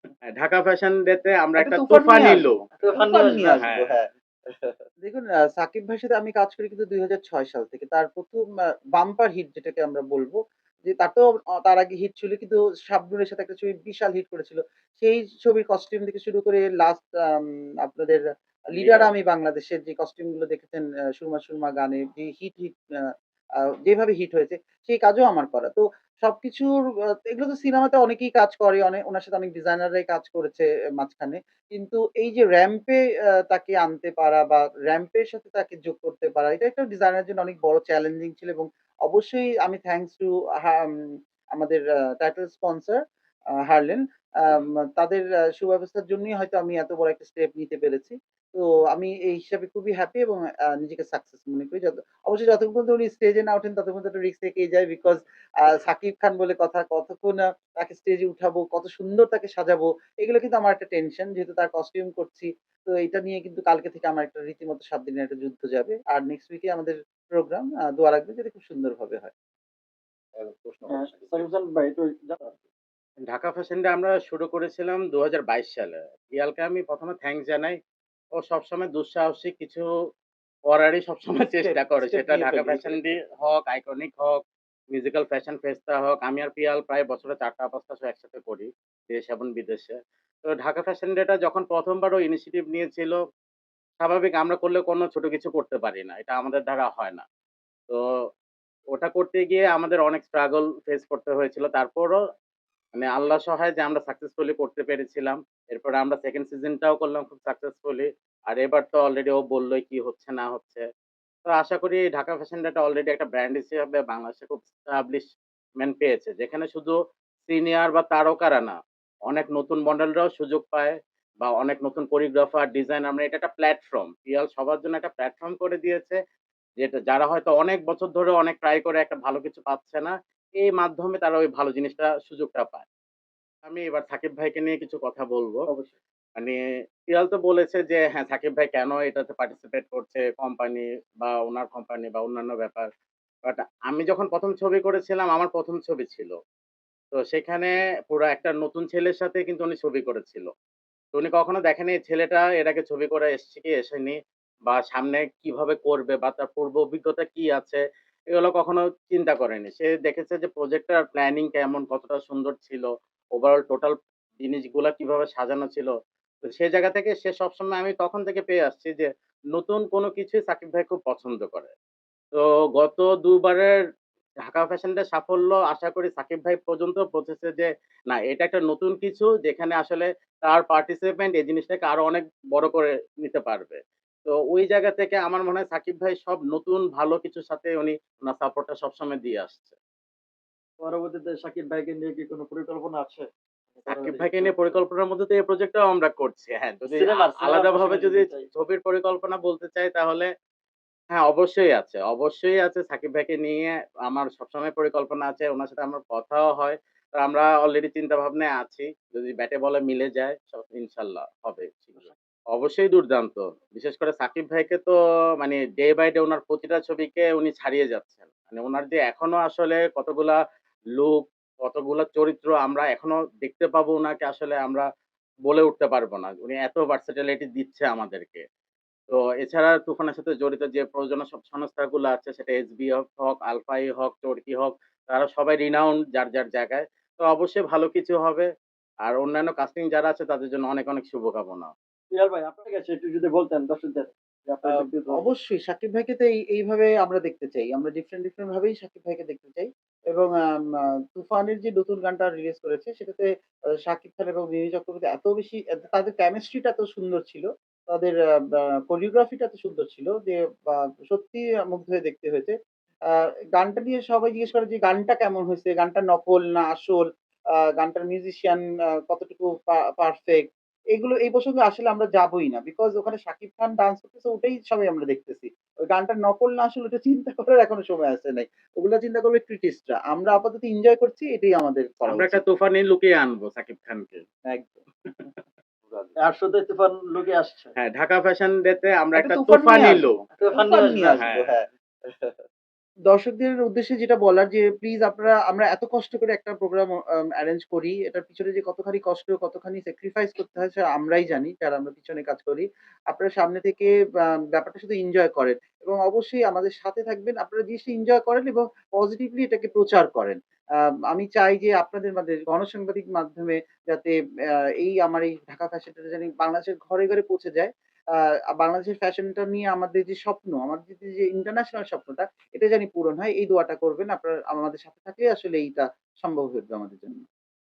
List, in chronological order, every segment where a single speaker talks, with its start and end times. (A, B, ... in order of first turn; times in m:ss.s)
0:00.4-0:02.6 A
0:01.6-0:08.4 B
0:02.8-0:03.6 C
0:03.6-0:03.9 A
0:09.0-0:18.2 B
0:18.8-0:22.7 B
0:18.8-0:19.1 A
0:23.8-0:26.7 B
0:27.3-0:33.0 B
0:33.5-0:40.9 B
0:41.6-0:43.0 B
0:43.7-1:09.3 B
1:10.4-1:11.4 B
1:10.9-1:12.5 C
1:13.3-1:17.8 A
1:18.4-1:19.8 A
1:20.7-1:24.4 A
1:21.6-1:23.0 B
1:24.9-1:30.0 A
1:30.5-1:33.2 A
1:34.0-1:37.2 A
1:38.9-1:42.2 A
1:43.0-1:50.8 A
1:51.4-1:55.3 A
1:55.8-1:56.9 A
1:57.5-1:58.7 A
1:59.3-2:06.2 A
2:06.8-2:12.8 A
2:13.6-2:15.6 A
2:15.7-2:15.9 C
2:17.1-2:22.9 A
2:23.4-2:26.3 A
2:27.1-2:30.5 A
2:31.1-2:34.1 A
2:34.6-2:37.8 A
2:38.3-2:45.9 A
2:46.5-2:51.7 A
2:52.3-2:53.7 A
2:54.4-3:09.8 A
3:10.8-3:14.6 C
3:13.9-3:20.3 A
3:16.9-3:18.4 C
3:21.1-3:40.4 A
3:41.0-3:44.8 A
3:45.4-3:48.4 A
3:49.1-3:58.4 A
3:59.0-4:01.7 A
4:02.1-4:05.2 C
4:04.7-4:10.3 B
4:11.1-4:13.3 B
4:13.8-4:22.5 B
4:23.6-4:27.0 B
4:27.8-4:42.4 B
4:42.1-4:44.2 A
4:44.5-4:44.8 B
4:46.2-4:47.7 C
4:47.8-4:50.2 A
4:49.2-4:52.4 B
4:50.3-4:51.2 C
4:51.2-4:51.5 A
4:53.1-5:03.9 B
5:04.5-5:10.4 B
5:11.1-5:14.1 B
5:14.8-5:17.7 B
5:18.5-5:27.2 B